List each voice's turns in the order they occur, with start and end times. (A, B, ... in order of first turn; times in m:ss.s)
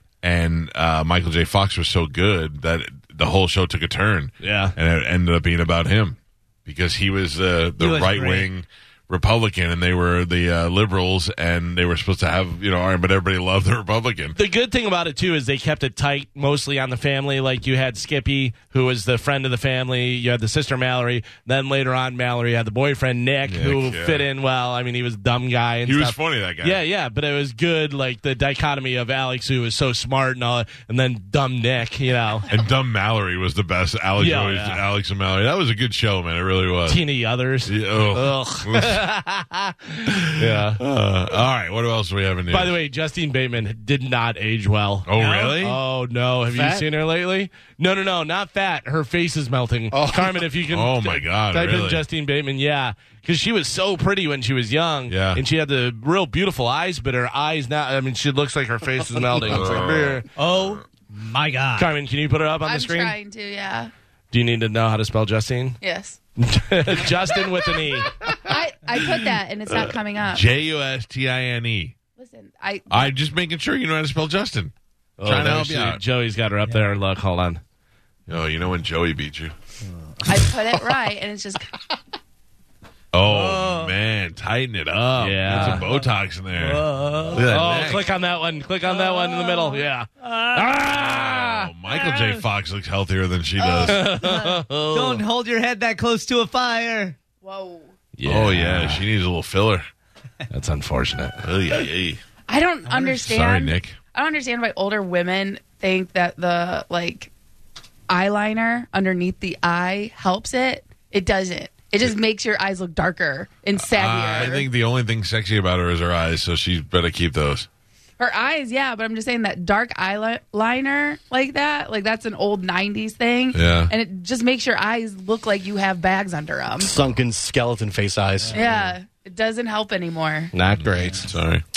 0:00.2-0:14.4 A
0:04.4-0:04.7 B
0:07.8-0:08.5 C
0:14.4-0:32.4 B
0:23.5-0:24.2 A
0:25.8-0:26.8 A
0:32.5-0:37.0 A
0:34.2-0:34.8 B
0:36.8-0:40.8 B
0:37.6-0:39.0 A
0:40.0-0:42.8 A
0:42.5-1:00.2 B
0:45.1-0:45.8 A
0:46.5-0:46.9 D
0:49.9-0:50.4 D
0:50.7-0:52.0 A
0:55.1-0:55.4 A
0:59.4-1:00.2 A
1:00.4-1:01.9 C
1:01.8-1:03.1 B
1:02.6-1:03.9 E
1:04.3-1:05.8 B
1:05.8-1:06.2 E
1:06.4-1:08.1 B
1:08.2-1:11.9 A
1:08.4-1:10.4 E
1:12.2-1:13.1 E
1:12.9-1:14.7 A
1:15.2-1:17.6 B
1:15.2-1:16.0 A
1:18.3-1:19.5 A
1:20.3-1:21.6 E
1:23.1-1:28.1 A
1:23.2-1:23.9 C
1:25.2-1:25.8 B
1:25.6-1:26.0 C
1:26.6-1:27.6 C
1:27.4-1:31.6 B
1:28.9-1:32.4 C
1:31.5-1:34.1 A
1:33.6-1:34.0 E
1:33.8-1:35.2 B
1:34.0-1:37.2 C
1:37.4-1:37.9 E
1:38.2-1:39.0 B
1:38.2-1:39.8 A
1:40.5-1:41.4 B
1:41.4-1:42.2 A
1:42.5-1:47.3 E
1:42.9-1:44.0 A
1:48.1-1:54.7 E
1:53.8-1:57.7 A
1:58.2-2:06.9 E
2:03.5-2:03.9 A
2:06.8-2:08.9 D
2:08.5-2:10.5 E
2:10.5-2:11.3 B
2:10.8-2:11.6 A